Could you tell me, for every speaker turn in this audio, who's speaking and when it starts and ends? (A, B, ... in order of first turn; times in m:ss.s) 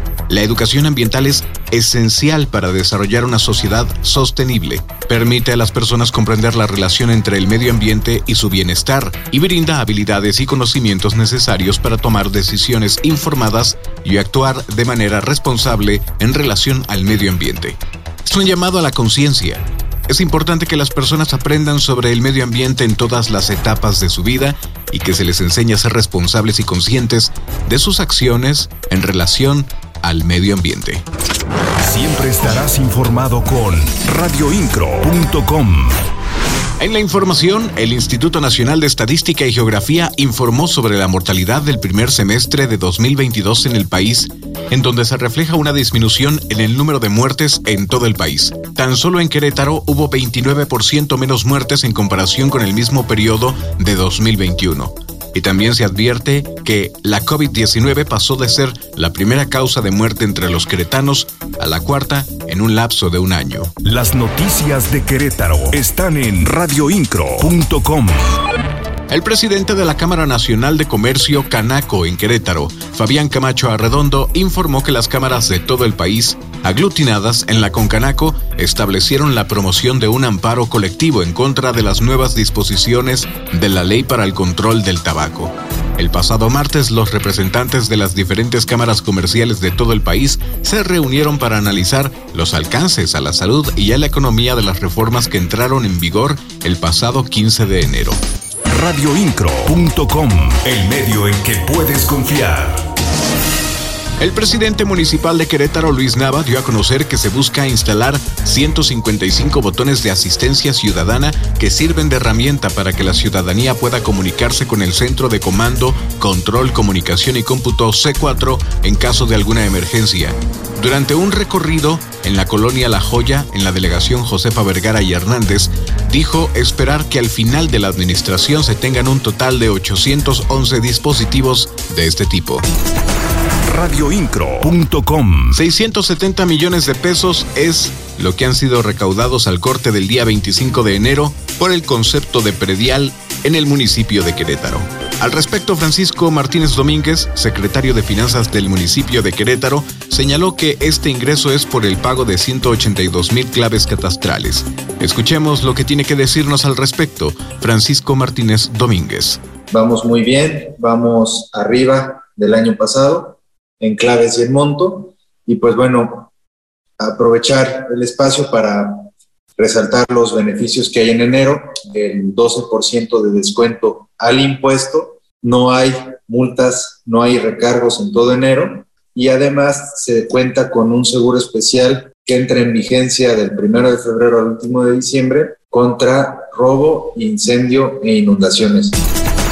0:00.3-0:31.0 A
0:31.8-0:36.0 B
0:36.8-1:03.7 A
1:03.8-1:08.4 B
1:09.1-1:38.2 A
1:38.7-1:42.9 B
1:44.2-2:12.7 A
2:13.7-2:15.6 B
2:15.5-2:39.4 A
2:39.7-2:46.3 C
2:47.0-3:09.0 C